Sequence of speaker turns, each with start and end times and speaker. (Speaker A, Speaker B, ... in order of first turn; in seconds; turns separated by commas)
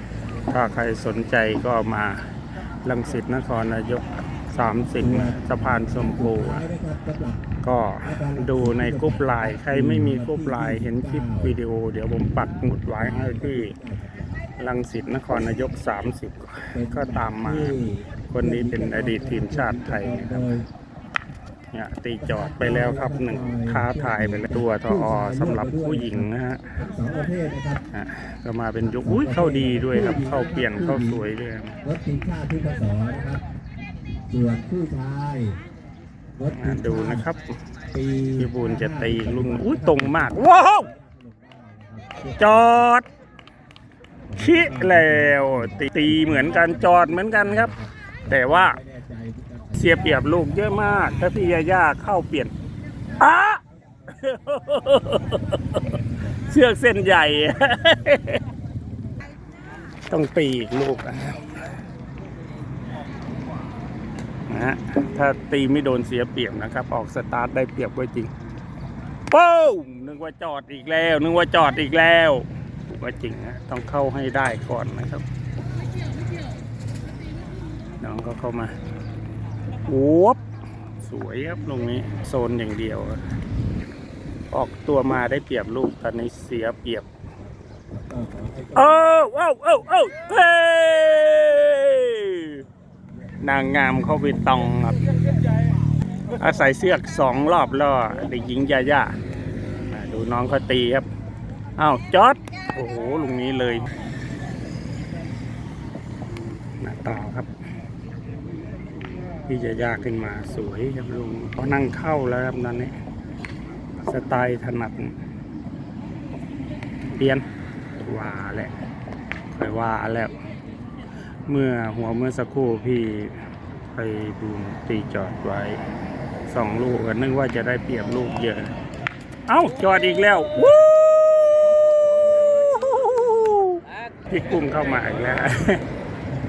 Speaker A: 0.5-2.3, Speaker A: 2.8-6.8, Speaker B: 6.7-7.4, Speaker A: 7.6-13.8, Speaker A: 14.6-20.6, Speaker A: 21.7-26.9, Speaker B: 26.9-27.8, Speaker A: 27.9-31.8, Speaker B: 32.0-33.4, Speaker B: 34.3-35.6, Speaker A: 36.5-37.6, Speaker B: 38.0-38.3, Speaker A: 38.3-40.9, Speaker B: 40.7-42.2, Speaker A: 42.2-43.0, Speaker A: 44.4-48.8, Speaker B: 48.9-49.7, Speaker A: 49.7-52.5, Speaker A: 53.2-58.4, Speaker A: 60.1-61.5, Speaker A: 64.5-68.3, Speaker A: 69.3-75.2, Speaker A: 78.0-78.7, Speaker A: 79.9-80.4, Speaker A: 81.0-83.2, Speaker A: 84.5-87.1, Speaker B: 88.0-88.7, Speaker A: 88.7-92.7, Speaker A: 93.4-95.0, Speaker A: 96.3-99.2, Speaker A: 99.8-101.1, Speaker A: 101.8-103.9, Speaker A: 106.4-107.5, Speaker A: 109.5-112.9, Speaker A: 114.0-115.2, Speaker A: 117.0-117.4, Speaker A: 118.0-118.7, Speaker A: 119.5-120.3, Speaker A: 121.5-123.4, Speaker A: 123.9-125.8, Speaker A: 126.5-128.7, Speaker A: 129.5-131.7, Speaker A: 132.4-135.8